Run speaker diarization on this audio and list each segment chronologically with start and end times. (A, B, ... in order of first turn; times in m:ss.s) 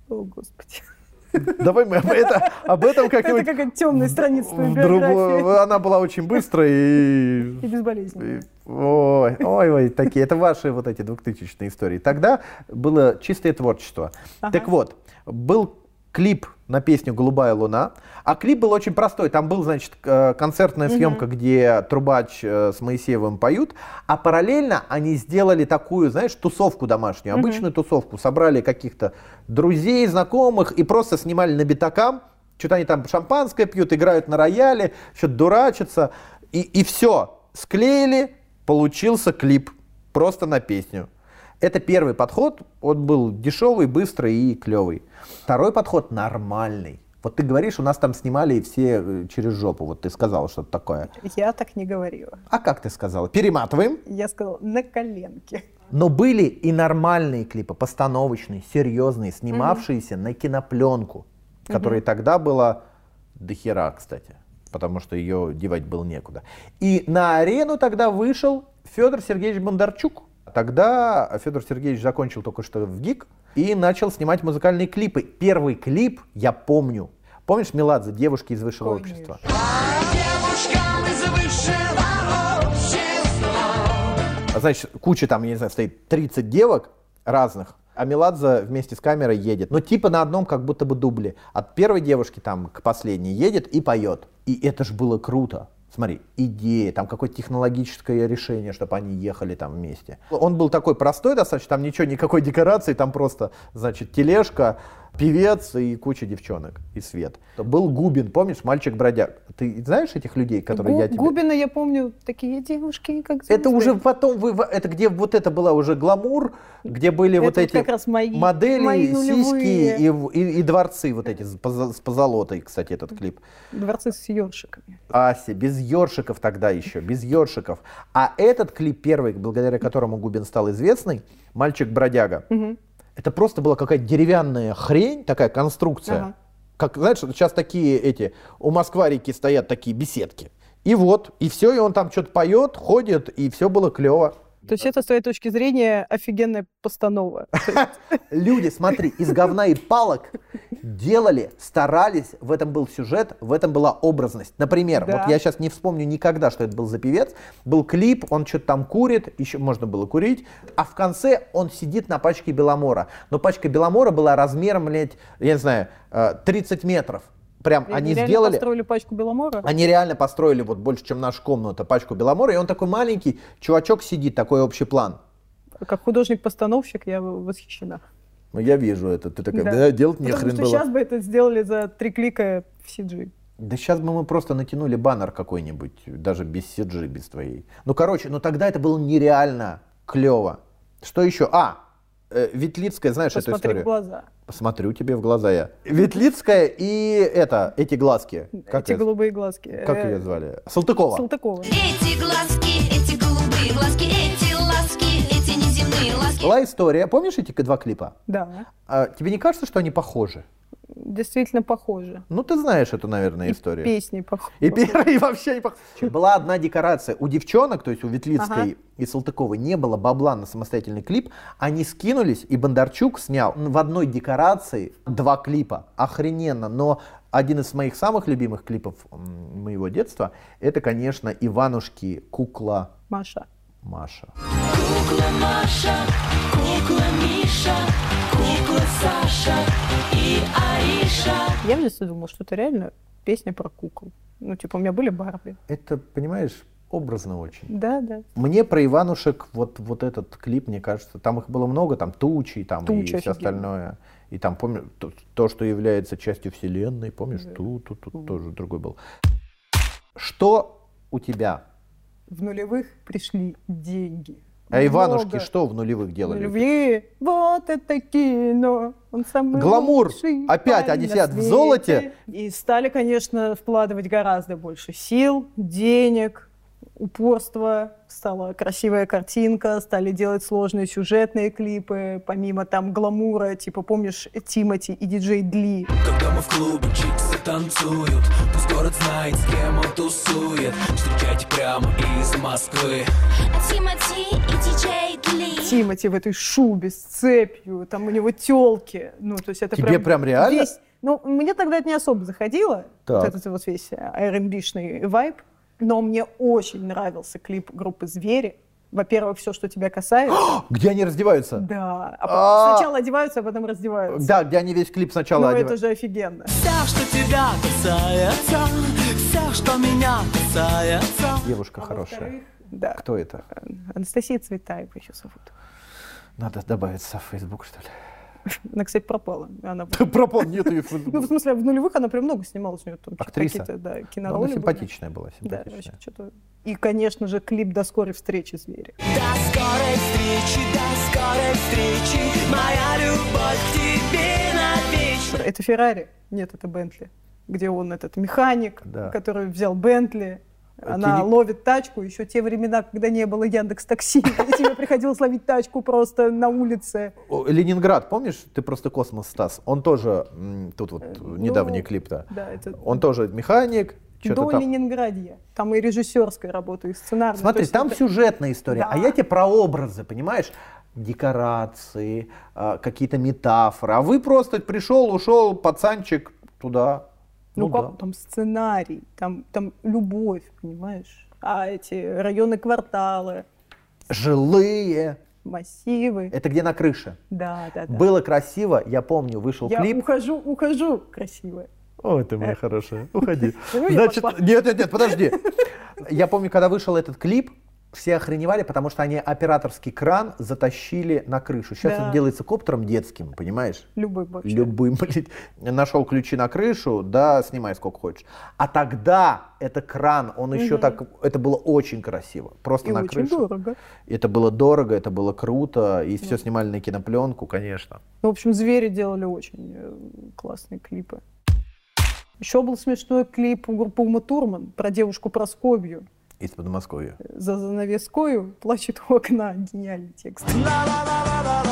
0:00.1-0:05.6 A
0:01.4-0:07.6 B
0:07.6-0:08.4 A
0:08.2-0:41.1 B
0:14.4-0:14.7 A
0:20.9-0:21.2 A
0:27.3-0:27.6 A
0:41.6-0:51.1 B
0:51.1-0:52.4 A
0:52.5-0:54.0 B
0:54.0-0:55.7 A
0:55.9-1:02.8 B
0:59.5-0:59.8 A
1:01.7-1:02.0 A
1:03.4-1:19.4 B
1:18.8-1:19.4 A
1:19.7-1:23.6 C
1:24.5-1:51.4 B
1:50.7-1:54.0 A
1:53.5-2:03.4 B
1:57.4-2:00.0 A
2:03.7-2:05.0 A
2:05.1-2:12.4 B
2:12.5-2:12.8 A
2:13.2-2:24.3 B
2:16.1-2:16.3 A
2:24.7-2:27.9 A
2:27.6-2:48.6 B
2:34.9-2:35.4 A
2:47.9-2:49.7 A
2:49.6-2:55.2 B
2:55.8-2:58.0 A
2:58.5-3:00.8 B
2:59.5-3:03.3 A
3:03.6-3:11.8 B
3:12.3-3:13.9 B
3:13.3-3:14.3 A
3:14.5-3:19.0 B
3:18.6-3:20.3 A
3:19.7-3:21.2 B
3:21.1-3:21.7 A
3:21.6-3:26.5 C
3:26.4-3:28.2 B
3:28.3-3:28.7 A
3:28.9-3:30.4 B
3:30.9-3:32.2 A
3:32.3-3:33.9 B
3:33.4-3:35.0 A
3:34.6-3:52.9 B
3:38.4-3:38.7 A
3:53.1-3:53.4 A
3:53.8-3:54.3 B
3:54.7-4:01.5 C
4:01.6-4:05.6 A
4:05.7-4:07.7 B
4:07.7-4:08.2 A
4:08.4-4:19.0 B
4:12.8-4:13.6 A
4:20.1-4:21.6 B
4:22.3-4:25.5 A
4:24.7-4:26.6 B
4:26.2-4:45.9 A
4:29.5-4:32.1 B
4:46.0-4:53.1 D
4:53.5-4:55.8 C
4:55.6-5:10.5 A
4:59.7-5:00.7 B
5:03.0-5:03.4 B
5:10.3-5:11.6 B
5:11.6-5:14.4 A
5:12.2-5:12.9 B
5:14.1-5:15.8 B
5:15.3-5:16.5 A
5:16.6-5:21.4 D
5:21.4-5:22.3 B
5:21.8-5:25.5 A
5:23.0-5:23.4 B
5:26.4-5:27.9 B
5:28.5-5:34.9 A
5:29.9-5:31.3 B
5:33.2-5:33.7 B
5:34.2-5:35.9 B
5:35.4-5:39.0 A
5:39.1-5:45.2 D
5:39.3-5:39.9 C
5:44.4-5:44.7 C
5:45.2-5:57.1 A
5:48.8-5:49.1 B
5:50.8-5:51.3 B
5:57.2-6:04.6 B
6:01.0-6:03.0 A
6:04.2-6:08.0 A
6:07.3-6:17.9 B
6:08.7-6:09.2 A
6:17.6-6:23.4 A
6:24.1-6:25.2 B
6:25.4-6:26.3 A
6:26.3-6:27.2 B
6:27.3-6:28.0 A
6:27.9-6:30.0 B
6:29.6-6:31.7 A
6:32.0-6:35.4 B
6:33.5-6:35.4 A
6:36.0-6:43.9 B
6:41.8-6:42.2 A
6:44.0-6:44.7 A
6:44.4-6:53.4 B
6:50.5-6:51.0 A
6:52.8-6:53.8 A
6:54.1-6:58.0 B
6:58.2-7:01.2 A
7:02.4-7:06.0 A
7:06.4-7:07.2 B
7:07.2-7:10.8 A